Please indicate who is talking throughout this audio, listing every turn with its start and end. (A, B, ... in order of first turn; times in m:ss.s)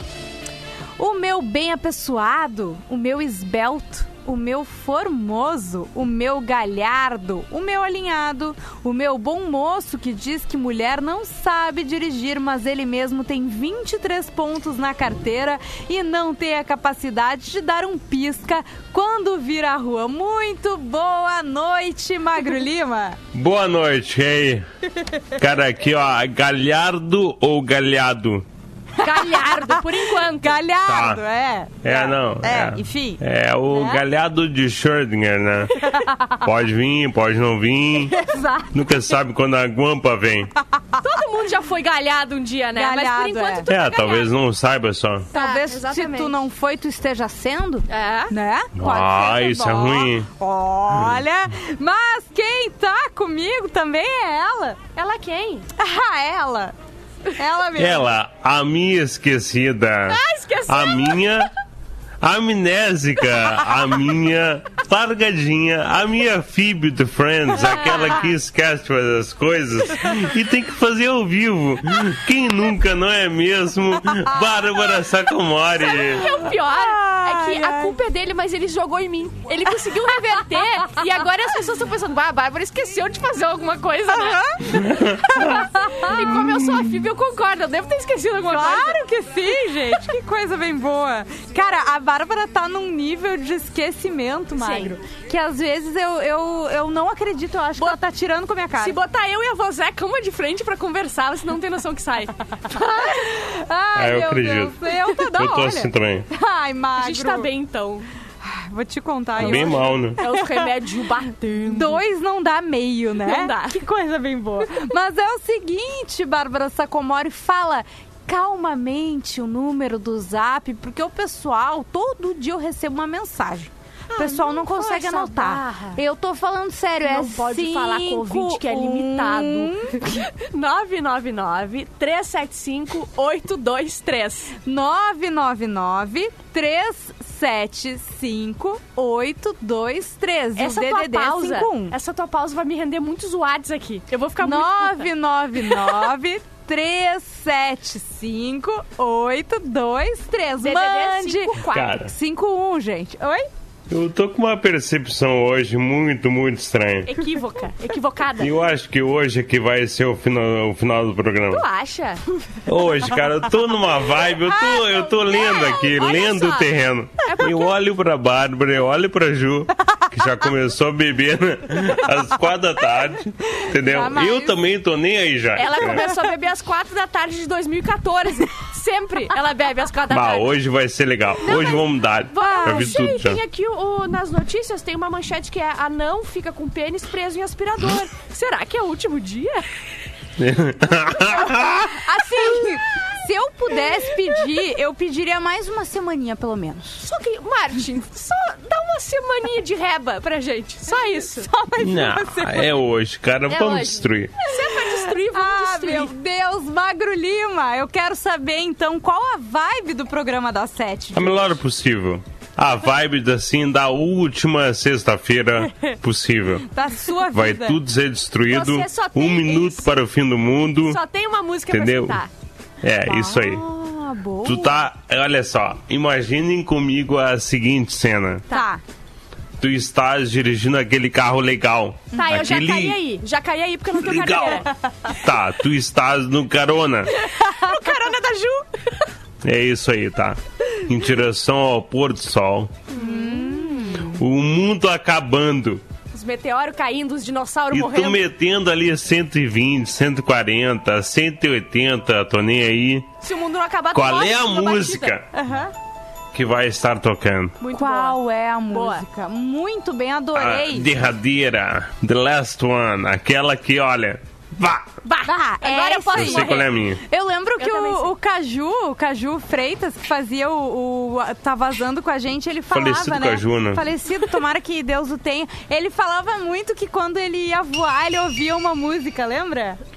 0:01.0-0:23.2 A
0:23.3-0:24.7 B
0:25.4-0:28.4 B
0:29.0-0:29.8 A
0:29.0-0:30.6 C
0:30.4-0:34.0 A
0:30.8-0:31.2 B
0:31.8-0:35.7 B
0:35.8-0:36.4 A
0:36.4-0:38.2 B
0:38.2-0:38.7 A
0:38.7-0:40.5 B
0:41.0-0:44.3 C
0:42.8-0:43.7 A
0:43.7-0:45.3 B
0:45.3-0:46.4 C
0:45.3-0:54.8 A
0:47.9-0:48.3 C
0:48.8-0:50.3 B
0:55.0-0:55.6 C
0:55.8-0:56.7 A
0:57.4-0:58.1 A
0:57.8-1:01.5 B
1:00.1-1:01.4 C
1:02.2-1:16.5 B
1:07.8-1:08.2 A
1:07.8-1:08.3 C
1:15.8-1:24.5 C
1:16.7-1:17.9 A
1:24.1-1:24.6 A
1:25.3-1:26.2 A
1:25.3-1:29.0 C
1:28.5-1:39.0 A
1:34.6-1:34.9 C
1:38.8-1:42.8 C
1:42.7-1:47.5 A
1:44.0-1:46.3 B
1:47.0-1:48.1 C
1:48.4-1:50.6 A
1:49.4-1:50.2 B
1:49.4-1:52.0 C
1:51.6-2:10.1 A
1:53.2-1:53.8 C
2:04.1-2:06.0 C
2:07.0-2:14.5 C
2:14.6-2:22.0 A
2:20.6-2:25.1 C
2:24.4-2:33.5 A
2:30.6-2:32.0 C
2:31.7-2:32.1 B
2:33.9-2:37.2 B
2:37.1-2:38.5 C
2:38.4-2:41.6 B
2:41.5-2:42.2 C
2:42.7-2:56.1 B
2:45.3-2:46.7 C
2:47.2-2:47.7 C
2:53.5-2:54.6 A
2:55.6-3:00.5 C
3:00.1-3:03.4 B
3:01.4-3:09.6 C
3:02.4-3:03.0 A
3:10.4-3:11.9 B
3:12.1-3:17.0 A
3:12.3-3:12.8 C
3:17.0-3:21.5 C
3:21.4-3:22.8 A
3:21.8-3:24.3 B
3:23.5-3:26.1 C
3:25.3-3:31.6 A
3:31.2-3:36.7 B
3:36.7-3:37.8 A
3:37.3-3:41.0 B
3:38.5-3:40.0 C
3:40.8-3:42.3 C
3:41.7-3:42.2 B
3:42.8-3:43.6 B
3:43.1-3:44.8 A
3:44.4-3:48.4 B
3:48.5-3:48.8 A
3:49.6-3:53.0 B
3:52.1-3:52.4 A
3:52.1-3:54.7 C
3:54.0-3:57.1 B
3:57.1-3:58.7 C
3:59.4-4:02.8 B
4:02.9-4:03.9 C
4:03.0-4:04.2 A
4:04.1-4:05.8 B
4:06.1-4:08.2 C
4:07.7-4:13.1 B
4:13.2-4:15.2 C
4:13.9-4:15.2 B
4:15.3-4:15.7 A
4:16.3-4:17.6 B
4:17.6-4:18.2 C
4:17.7-4:20.9 A
4:18.7-4:19.0 C
4:20.4-4:24.9 B
4:25.0-4:26.7 C
4:25.2-4:39.8 A
4:26.1-4:27.0 B
4:27.6-4:28.1 C
4:32.7-4:33.8 B